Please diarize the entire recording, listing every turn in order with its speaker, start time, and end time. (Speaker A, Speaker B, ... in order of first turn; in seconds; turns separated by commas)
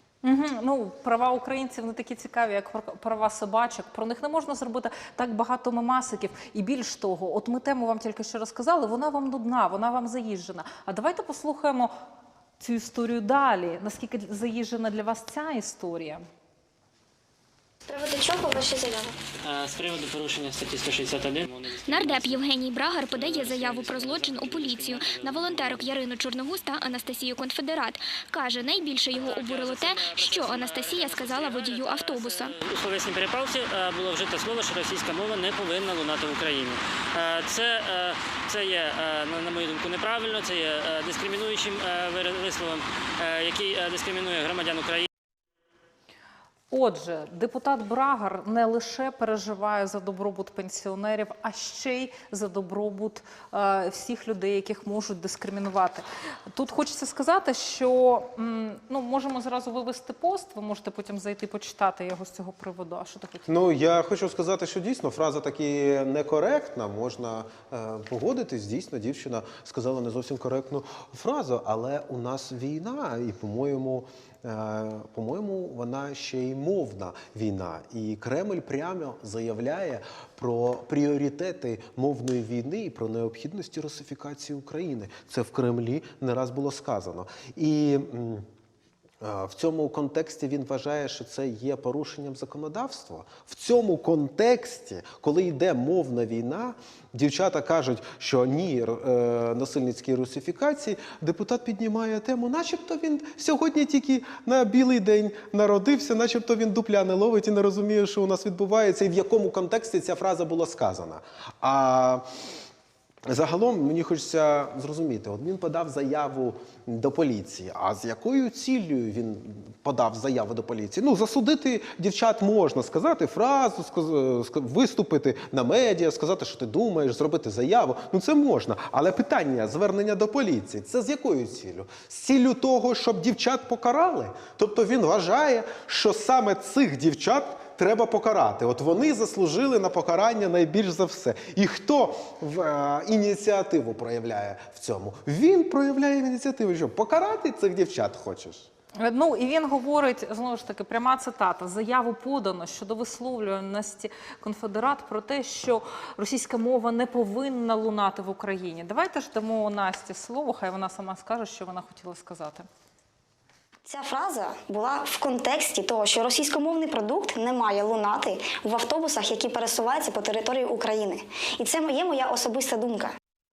Speaker A: 0.2-11.9, Speaker A: 12.6-16.2, Speaker B: 17.9-19.1, Speaker C: 19.4-22.4, Speaker D: 21.9-32.5, Speaker C: 23.0-25.9, Speaker C: 29.1-45.1, Speaker A: 46.7-63.5, Speaker E: 63.5-88.4, Speaker E: 89.2-112.2, Speaker E: 113.3-148.7, Speaker A: 149.0-162.7, Speaker B: 163.9-173.1